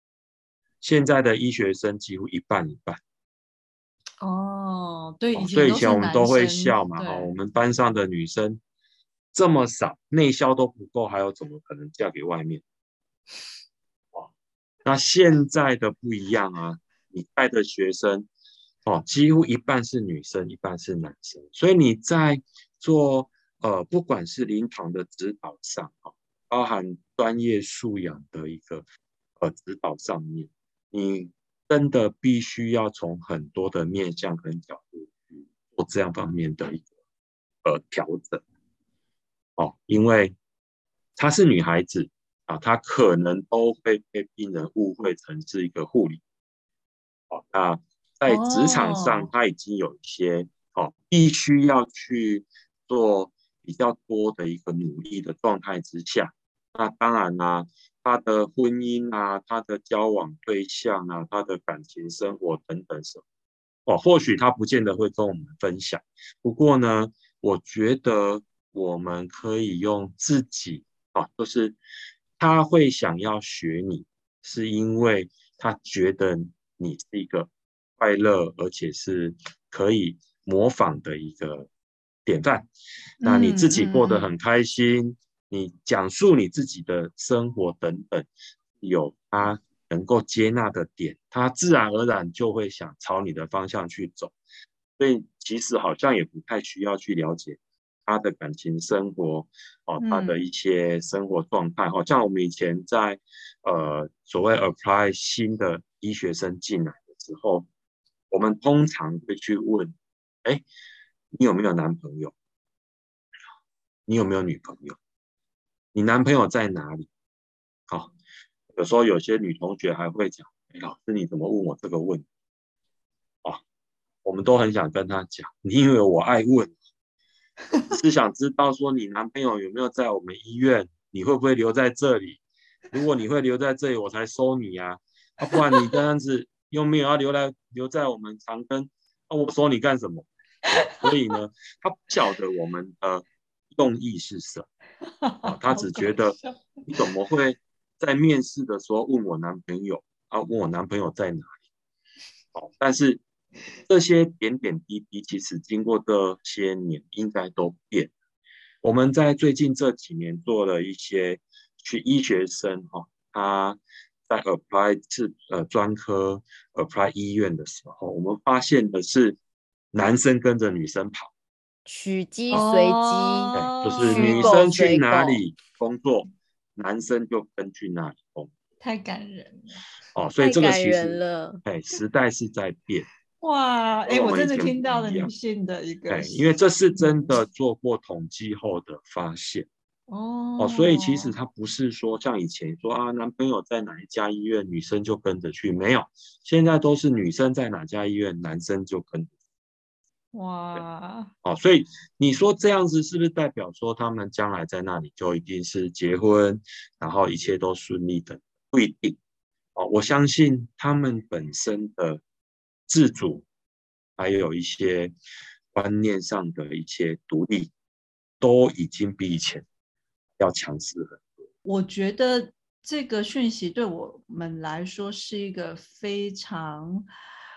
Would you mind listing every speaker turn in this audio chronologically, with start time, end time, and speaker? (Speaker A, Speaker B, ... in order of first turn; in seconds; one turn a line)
Speaker A: 0.8-3.0
Speaker B: 4.2-7.3
Speaker A: 5.3-8.6
Speaker A: 9.3-12.6
Speaker A: 14.8-18.3
Speaker A: 18.8-28.8
Speaker A: 29.4-36.9
Speaker A: 37.6-38.4
Speaker A: 39.6-40.3
Speaker A: 41.1-46.2
Speaker A: 47.3-63.2
Speaker B: 48.2-49.3
Speaker A: 63.9-71.8
Speaker A: 72.4-81.7
Speaker A: 82.2-82.7
Speaker B: 83.2-84.3
Speaker A: 83.2-88.3
Speaker A: 88.8-94.3
Speaker A: 95.0-107.7
Speaker B: 100.0-100.5
Speaker A: 108.3-109.9
Speaker A: 111.3-112.3
Speaker A: 114.1-115.0
Speaker A: 115.9-117.1
Speaker A: 117.9-118.1
Speaker A: 118.8-122.2
Speaker A: 124.2-126.7
Speaker A: 127.9-144.7
Speaker B: 145.2-147.1
Speaker A: 145.4-151.6
Speaker A: 152.5-153.2
Speaker A: 153.9-158.1
Speaker A: 158.8-169.4
Speaker A: 169.9-171.3
Speaker C: 171.8-175.4
Speaker B: 172.5-174.7
Speaker A: 173.5-178.5
Speaker B: 178.8-179.8
Speaker A: 180.1-183.1
Speaker C: 180.4-181.6
Speaker B: 183.4-187.4
Speaker A: 184.1-185.3
Speaker A: 186.1-189.7
Speaker B: 190.1-191.3
Speaker A: 190.6-199.3
Speaker B: 200.3-201.3
Speaker A: 201.4-209.2
Speaker A: 209.7-212.2
Speaker A: 212.9-213.4
Speaker A: 214.2-215.1
Speaker A: 215.7-217.7
Speaker A: 218.4-219.6
Speaker A: 220.4-221.3
Speaker B: 221.6-227.1